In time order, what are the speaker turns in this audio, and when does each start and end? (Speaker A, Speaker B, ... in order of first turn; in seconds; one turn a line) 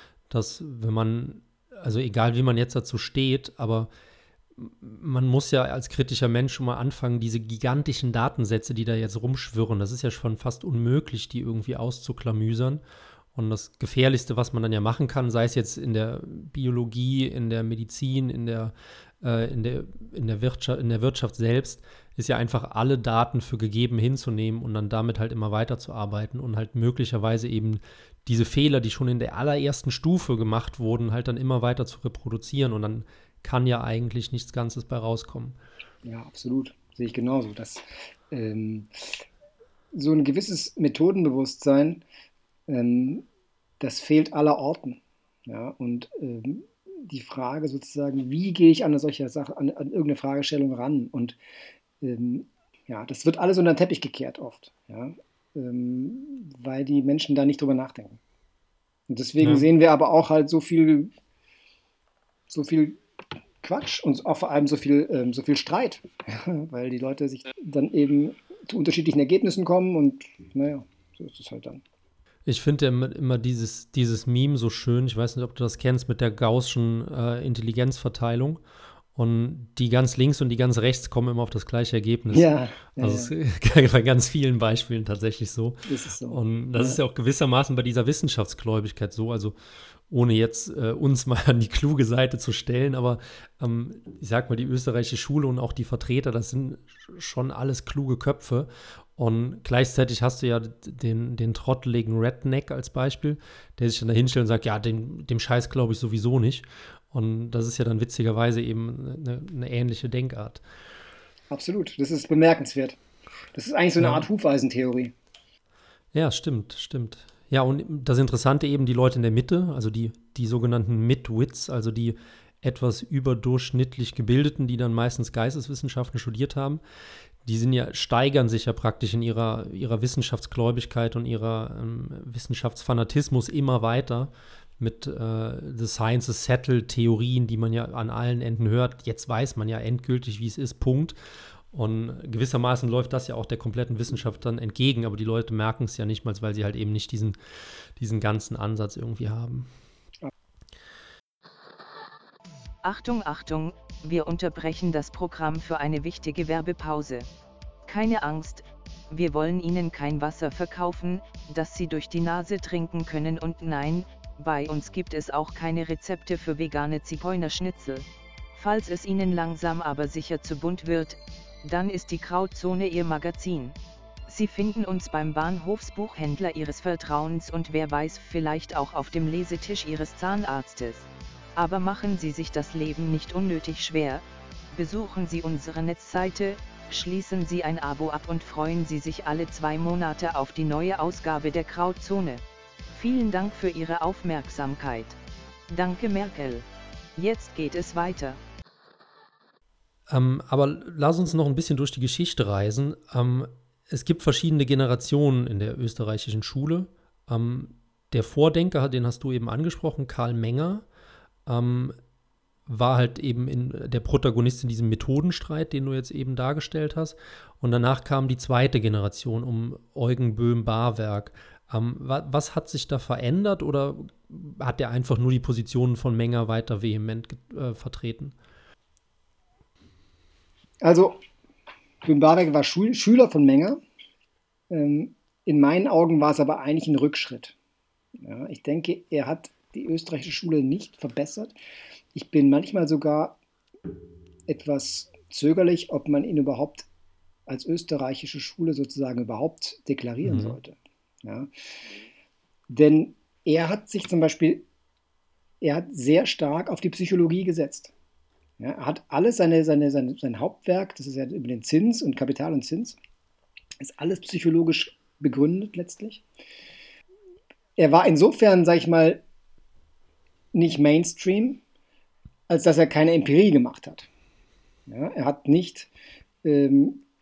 Speaker A: 0.3-3.9
Speaker A: 4.5-12.8
Speaker A: 13.3-35.6
Speaker B: 36.0-39.2
Speaker B: 39.9-42.0
Speaker B: 42.7-43.2
Speaker B: 43.8-51.4
Speaker B: 52.0-58.2
Speaker B: 59.1-61.1
Speaker A: 59.4-59.7
Speaker B: 62.5-63.0
Speaker B: 63.6-71.8
Speaker A: 72.5-78.6
Speaker A: 79.1-89.5
Speaker B: 82.3-83.3
Speaker B: 85.8-87.0
Speaker A: 90.1-110.6
Speaker B: 111.5-113.0
Speaker B: 113.5-115.1
Speaker A: 114.0-114.2
Speaker A: 116.1-126.8
Speaker A: 127.4-141.2
Speaker A: 141.7-147.4
Speaker A: 148.0-149.7
Speaker C: 152.8-157.2
Speaker C: 157.9-173.8
Speaker C: 174.3-195.2
Speaker C: 195.7-196.7
Speaker C: 197.2-198.4
Speaker A: 200.1-210.8
Speaker A: 211.4-212.0
Speaker A: 212.7-228.3
Speaker B: 230.8-231.2
Speaker B: 232.0-233.8
Speaker B: 234.7-237.6
Speaker B: 238.2-241.5
Speaker B: 242.1-243.4
Speaker B: 244.5-246.9
Speaker B: 247.5-251.5
Speaker A: 250.2-250.6
Speaker B: 252.7-254.6
Speaker B: 255.6-257.9
Speaker B: 258.6-263.0
Speaker B: 263.8-266.2
Speaker B: 267.8-269.2
Speaker B: 270.5-271.6
Speaker B: 272.5-274.1
Speaker B: 274.9-275.9
Speaker B: 276.4-277.0